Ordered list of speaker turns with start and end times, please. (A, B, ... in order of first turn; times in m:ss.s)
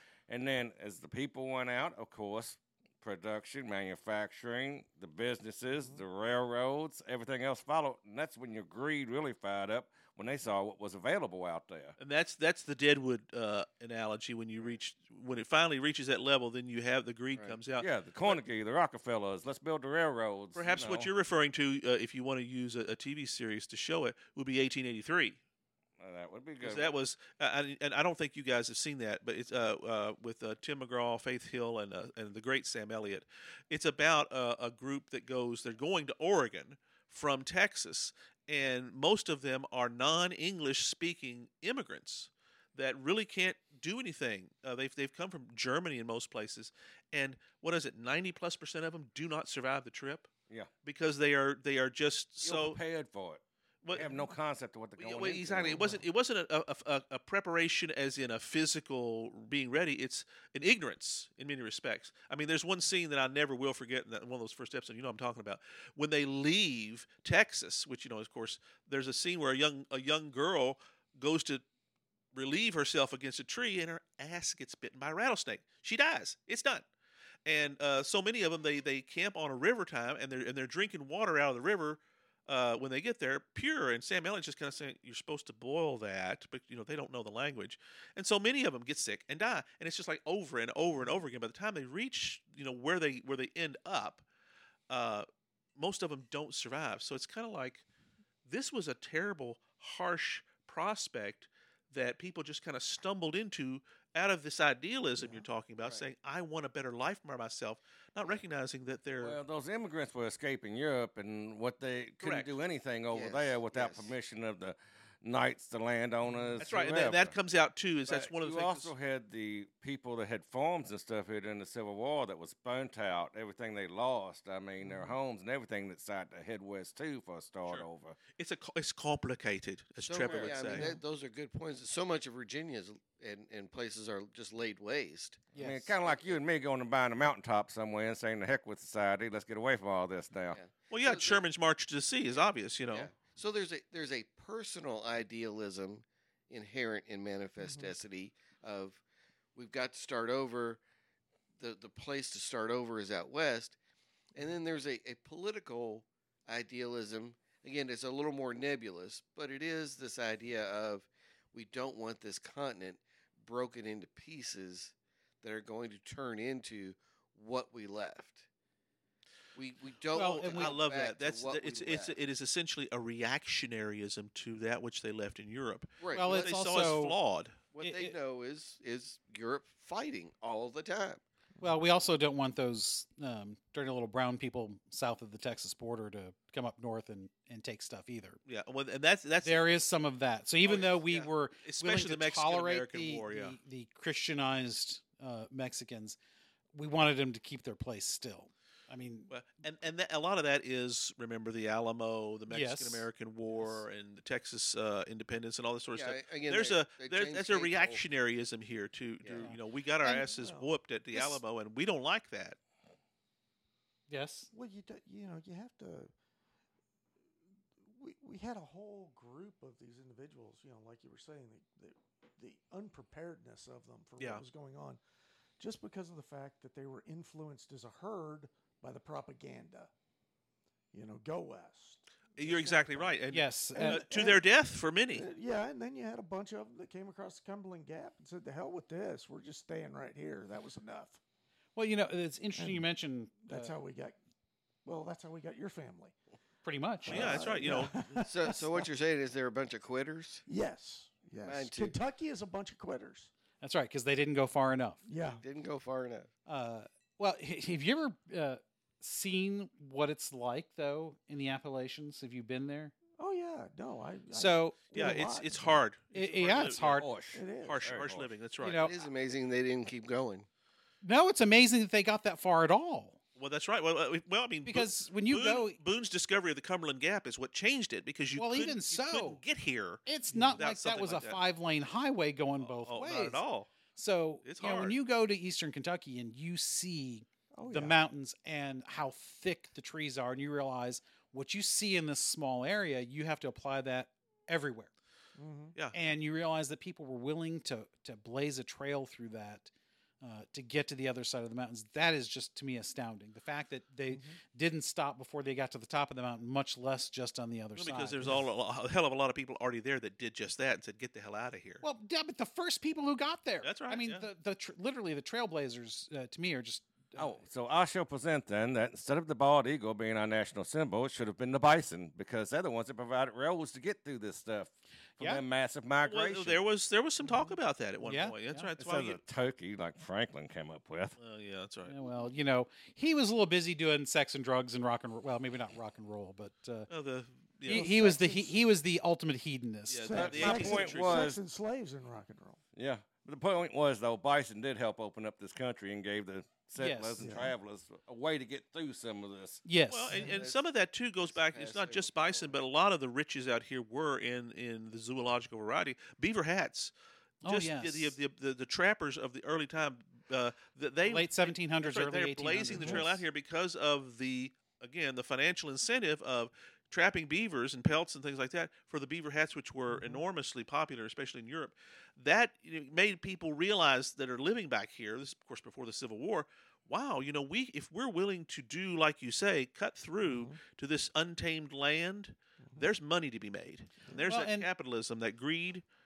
0:00.3-0:12.0 A
0:12.0-0:18.4 B
0:17.8-0:21.1 A
0:20.5-0:25.4 B
0:26.0-0:26.9 A
0:26.6-0:50.3 B
0:50.8-0:52.8 B
0:52.4-0:56.0 A
0:53.8-0:54.1 B
0:55.0-1:11.6 B
1:12.3-1:16.8 B
1:17.4-1:34.2 B
1:34.9-1:37.8 B
1:38.4-1:49.4 B
1:45.8-1:46.0 C
1:49.2-1:57.4 A
1:52.2-1:52.5 B
1:53.1-1:54.1 C
1:56.3-1:56.6 D
1:56.6-1:58.9 B
1:58.0-2:08.2 A
2:04.8-2:05.1 D
2:07.6-2:11.0 B
2:10.0-2:15.5 C
2:10.2-2:10.6 A
2:15.5-2:15.9 E
2:15.6-2:20.6 A
2:16.0-2:16.4 C
2:20.5-2:21.4 C
2:20.9-2:23.1 B
2:22.9-2:29.0 C
2:27.6-2:28.0 D
2:29.5-2:30.8 C
2:31.6-2:33.8 C
2:34.4-2:48.5 C
2:49.5-2:52.1 C
2:50.1-2:50.8 E
2:50.1-2:57.6 B
2:56.0-2:56.5 C
2:56.1-2:57.2 E
2:57.7-3:01.2 C
2:57.8-2:58.2 E
3:01.6-3:08.4 E
3:08.4-3:09.6 B
3:09.4-3:16.2 E
3:10.6-3:10.9 B
3:10.7-3:11.2 C
3:11.6-3:13.6 B
3:16.7-3:19.3 E
3:19.3-3:32.6 B
3:22.5-3:23.0 E
3:25.9-3:28.0 C
3:29.4-3:30.3 E
3:30.3-3:30.7 D
3:34.1-3:34.5 E
3:34.5-3:36.1 D
3:37.9-3:45.0 D
3:44.2-3:44.4 B
3:45.6-3:49.9 D
3:50.9-3:53.2 D
3:52.4-3:55.2 B
3:53.3-3:54.2 E
3:53.7-3:54.4 D
3:55.1-4:01.2 D
4:01.8-4:03.7 E
4:02.6-4:02.9 D
4:03.4-4:04.2 D
4:04.8-4:06.2 D
4:06.6-4:07.5 E
4:07.0-4:08.9 D
4:07.1-4:07.9 B
4:08.2-4:10.4 C
4:10.4-4:13.3 D
4:11.4-4:12.0 C
4:13.6-4:15.0 E
4:15.0-4:15.4 D
4:15.2-4:16.3 C
4:16.5-4:22.9 E
4:23.2-4:25.8 D
4:24.3-4:25.1 E
4:24.9-4:27.1 B
4:26.1-4:27.1 E
4:26.9-4:28.3 A
4:27.3-4:27.9 D
4:27.6-4:29.1 B
4:28.6-4:28.9 E
4:28.7-4:30.5 C
4:31.0-4:33.2 E
4:33.4-4:40.0 B
4:34.6-4:35.8 E
4:38.4-4:39.4 E
4:40.0-4:43.4 E
4:40.3-4:40.6 D
4:40.6-4:41.4 B
4:42.6-4:43.7 B
4:43.9-4:54.9 E
4:44.4-4:44.9 B
4:47.5-4:48.0 D
4:55.4-4:55.8 D
4:55.9-4:59.7 E
5:00.2-5:08.4 E
5:04.1-5:04.4 D
5:07.8-5:11.8 B
5:11.8-5:17.3 E
5:13.6-5:14.3 B
5:17.2-5:26.6 A
5:25.2-5:25.4 E
5:26.0-5:29.2 B
5:27.2-5:27.5 D
5:28.0-5:28.7 E
5:28.8-5:31.2 A
5:31.2-5:31.9 B
5:31.8-5:36.9 E
5:36.9-5:37.9 B
5:37.7-5:40.2 E
5:37.7-5:38.6 D
5:39.9-5:41.3 B
5:40.0-5:42.6 D
5:40.1-5:41.4 A
5:42.7-5:49.6 A
5:46.8-5:47.3 E
5:47.2-5:47.5 D
5:49.6-5:50.3 E
5:49.9-5:56.9 B
5:50.1-5:50.6 C
5:51.2-5:52.6 C
5:57.4-5:58.2 E
5:57.4-6:25.8 B
6:01.0-6:03.2 E
6:02.7-6:03.1 D
6:09.9-6:10.2 D
6:20.2-6:20.6 D
6:24.2-6:24.7 E